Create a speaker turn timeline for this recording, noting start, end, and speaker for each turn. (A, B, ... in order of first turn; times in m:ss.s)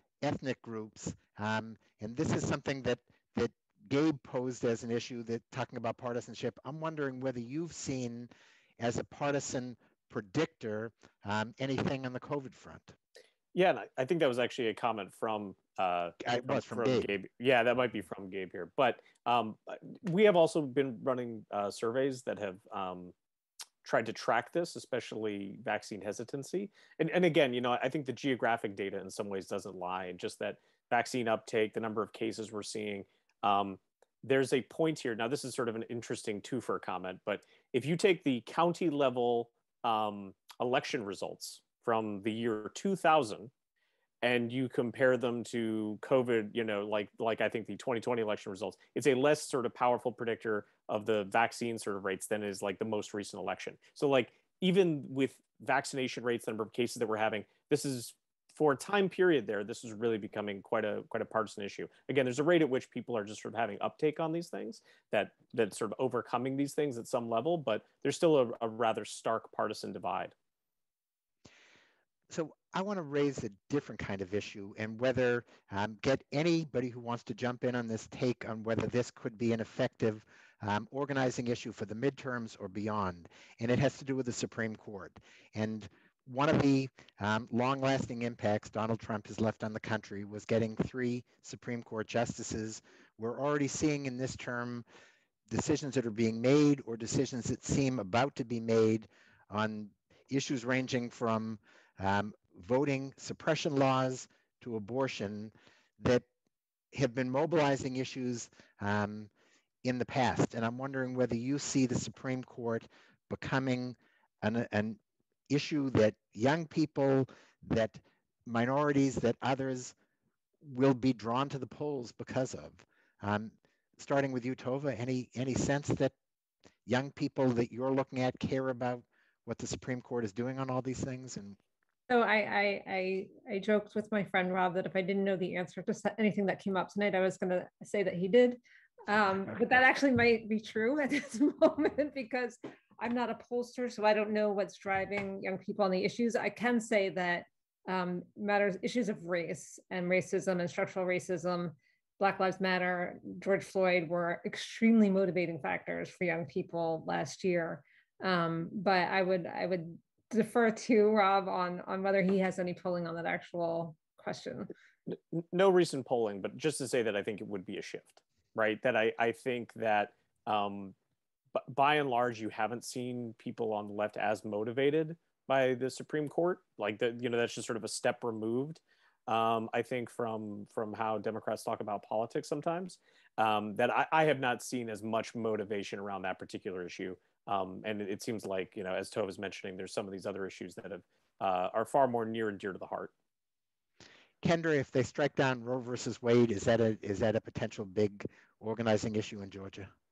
0:00.2-0:13.0 A
0:13.5-0:23.1 B
0:16.2-0:17.1 A
0:23.8-0:43.5 B
0:44.2-1:10.3 B
1:12.3-1:34.8 A
1:35.5-1:46.2 A
1:46.9-1:49.3 A
1:49.8-2:00.0 A
2:00.6-2:06.1 A
2:06.9-2:11.6 A
2:12.1-2:44.7 C
2:45.1-2:51.0 B
2:51.6-3:13.1 B
3:14.4-3:19.9 A